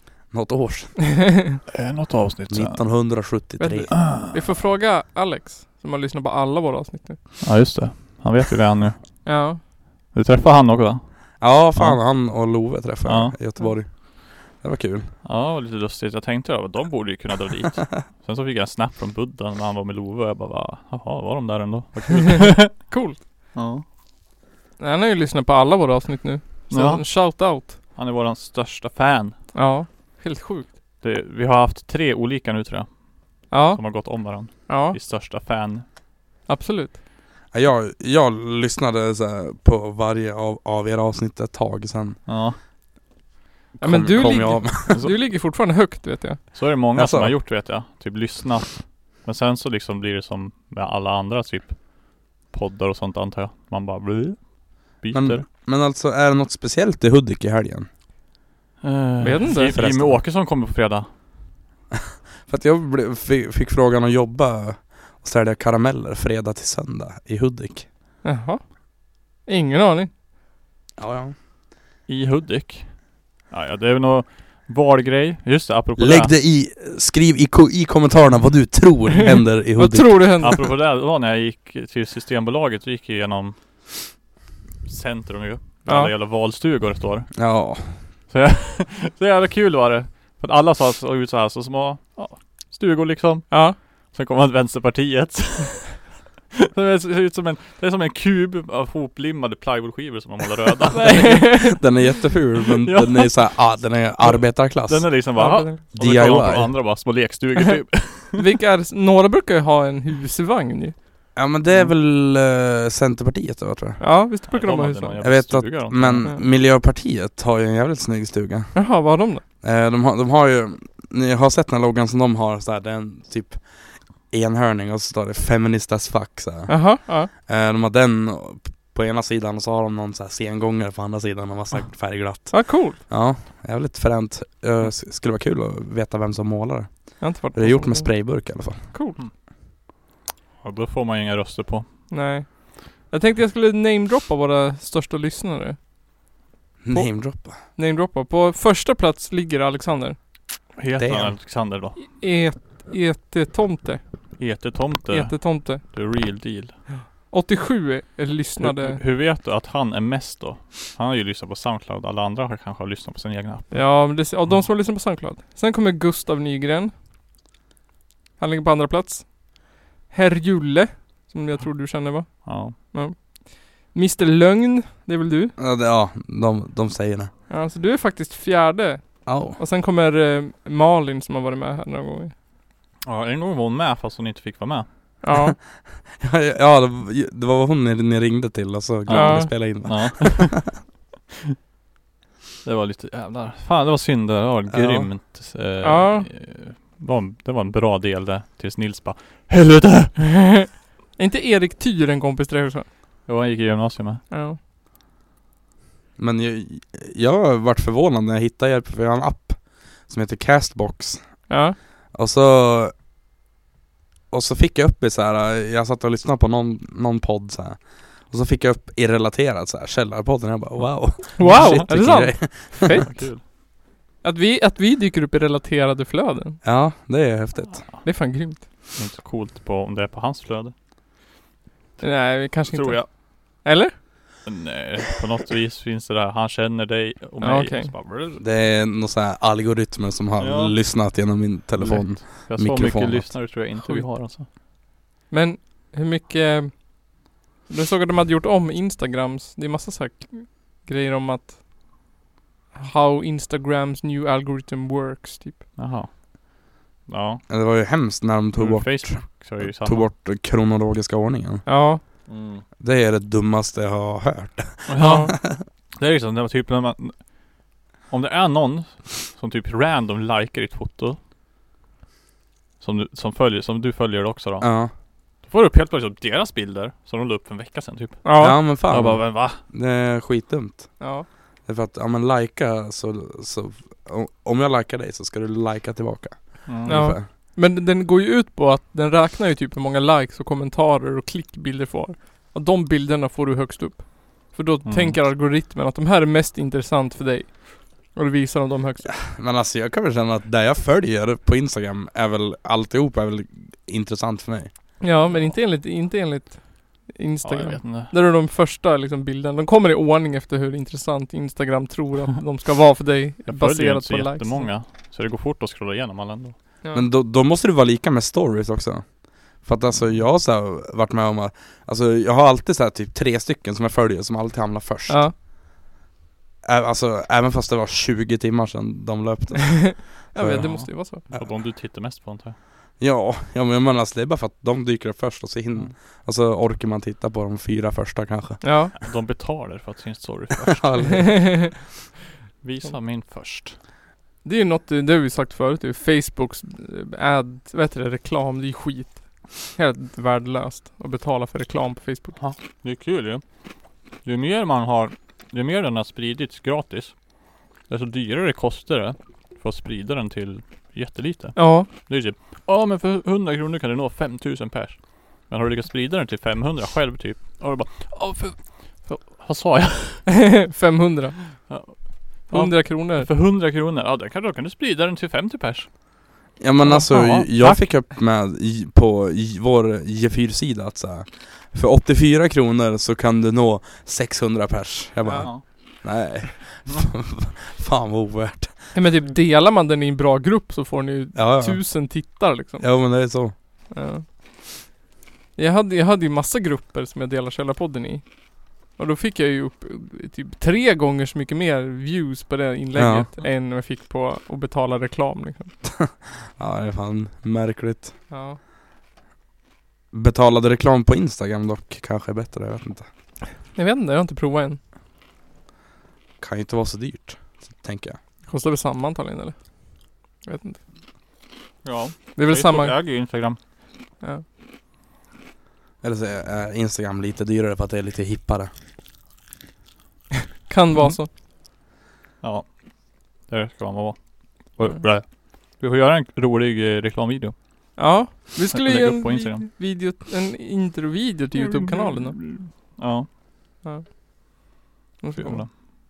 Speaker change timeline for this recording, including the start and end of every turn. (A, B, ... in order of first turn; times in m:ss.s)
0:00.3-0:01.0 A
0:01.7-0:02.8 B
0:02.5-0:04.0 A
0:03.6-0:07.2 C
0:04.0-0:04.3 B
0:07.4-0:09.2 B
0:09.2-0:09.6 C
0:10.1-0:12.0 B
0:11.4-0:15.1 A
0:13.0-0:13.4 B
0:15.2-0:22.9 B
0:22.2-0:23.2 C
0:23.5-0:23.8 B
0:24.8-0:27.8 C
0:26.7-0:27.0 B
0:27.9-0:29.4 B
0:29.5-0:30.7 C
0:31.0-0:35.8 B
0:33.5-0:35.0 C
0:36.5-0:37.0 C
0:37.5-0:42.2 A
0:42.2-0:42.6 B
0:43.8-0:45.0 A
0:43.8-0:46.4 C
0:44.9-0:45.2 B
0:46.5-0:55.4 B
0:46.9-0:47.4 A
0:55.1-0:57.9 A
0:58.8-1:01.1 B
0:59.2-0:59.8 C
0:59.5-1:00.2 A
1:02.4-1:07.9 A
1:08.2-1:08.6 C
1:09.4-1:10.1 C
1:11.0-1:11.3 A
1:12.1-1:16.3 B
1:16.0-1:20.5 A
1:19.7-1:20.6 C
1:20.4-1:23.6 B
1:24.8-1:27.4 B
1:25.8-1:26.1 C
1:27.3-1:28.0 A
1:28.3-1:36.1 B
1:33.5-1:33.8 C
1:36.7-1:41.4 B
1:40.9-1:41.8 C
1:41.0-1:45.2 A
1:42.8-1:48.4 B
1:45.4-1:45.8 C
1:45.9-1:46.7 A
1:47.6-1:51.0 C
1:51.3-1:54.0 A
1:54.0-1:55.2 C
1:54.5-1:56.3 B
1:55.2-1:58.7 A
1:58.7-1:59.4 C
1:59.6-2:18.8 A
2:06.7-2:07.3 C
2:12.5-2:13.0 C
2:17.2-2:19.2 C
2:20.6-2:21.8 B
2:22.1-2:25.8 C
2:26.8-2:27.6 A
2:26.9-2:30.2 C
2:30.8-2:32.0 B
2:31.0-2:31.3 A
2:32.0-2:34.0 C
2:34.4-2:36.8 B
2:35.1-2:35.9 C
2:36.9-2:39.0 C
2:38.6-2:43.8 B
2:43.7-2:46.9 C
2:48.4-2:55.5 C
2:52.4-2:52.7 B
2:55.6-2:57.3 A
2:57.5-3:02.3 C
2:59.2-2:59.6 A
3:03.0-3:04.9 B
3:05.2-3:05.6 C
3:05.3-3:10.7 A
3:09.1-3:10.8 B
3:09.1-3:09.5 C
3:12.6-3:20.2 B
3:14.7-3:15.1 A
3:15.8-3:16.3 C
3:20.2-3:22.9 C
3:23.2-3:24.2 B
3:24.3-3:24.6 C
3:26.2-3:31.5 A
3:31.5-3:31.8 C
3:32.1-3:32.9 A
3:34.3-3:43.0 A
3:41.4-3:43.4 C
3:41.4-3:41.9 B
3:42.9-3:43.4 B
3:44.2-3:46.6 C
3:46.6-3:47.8 A
3:48.0-3:48.6 C
3:48.9-3:50.7 B
3:52.0-3:53.9 C
3:52.7-3:53.1 B
3:54.4-3:58.4 B
3:57.4-3:57.9 C
3:58.4-4:03.5 A
4:00.4-4:00.8 B
4:01.8-4:04.5 B
4:05.3-4:07.1 C
4:07.7-4:11.6 C
4:12.7-4:15.7 C
4:15.8-4:17.4 B
4:17.5-4:21.6 A
4:18.5-4:20.1 B
4:21.6-4:22.0 C
4:22.3-4:22.6 B
4:22.8-4:25.6 A
4:24.9-4:27.3 B
4:25.0-4:25.3 C
4:28.1-4:31.2 B
4:32.8-4:34.7 B
4:34.6-4:34.9 A
4:35.4-4:39.6 B
4:38.2-4:38.6 C
4:38.4-4:41.0 A
4:41.0-4:41.2 C
4:41.6-4:47.3 A
4:46.6-4:47.0 B
4:46.8-4:59.2 C
4:54.8-4:55.2 B
4:59.1-5:04.7 A
5:05.0-5:14.7 C
5:07.4-5:08.1 B
5:13.4-5:16.5 B
5:16.9-5:25.3 A
5:19.9-5:20.2 B
5:25.1-5:25.3 C
5:26.6-5:31.5 A
5:29.7-5:31.2 C
5:30.5-5:32.6 B
5:33.0-5:38.6 A
5:38.6-5:38.9 C
5:39.0-5:41.3 B
5:40.7-5:41.7 A
5:41.1-5:41.7 C
5:42.6-5:43.8 B
5:44.4-5:52.4 C
5:52.4-5:53.4 B
5:54.2-5:57.3 B
5:57.8-6:10.3 B
6:01.6-6:01.9 C
6:10.3-6:11.5 C
6:11.6-6:15.9 B
6:12.5-6:13.3 C
6:16.6-6:28.8 A
6:16.8-6:17.8 B
6:25.2-6:25.5 C
6:28.9-6:32.9 C
6:31.3-6:31.9 A
6:32.8-6:33.5 A
6:33.9-6:34.2 C
6:35.6-6:38.2 C
6:38.9-6:45.7 C
6:42.9-6:43.3 A
6:45.9-6:48.1 A
6:48.3-6:48.6 C
6:50.1-6:53.0 A
6:53.7-6:54.8 C
6:56.4-6:58.2 A
6:58.5-6:59.6 C
7:00.4-7:00.8 C
7:01.8-7:03.6 B
7:02.4-7:03.0 C
7:06.0-7:08.7 A
7:10.7-7:11.3 C
7:12.4-7:12.8 B
7:13.4-7:17.5 B
7:18.0-7:22.4 C
7:18.7-7:19.7 B
7:21.5-7:23.3 B
7:25.2-7:25.6 C
7:25.4-7:25.7 B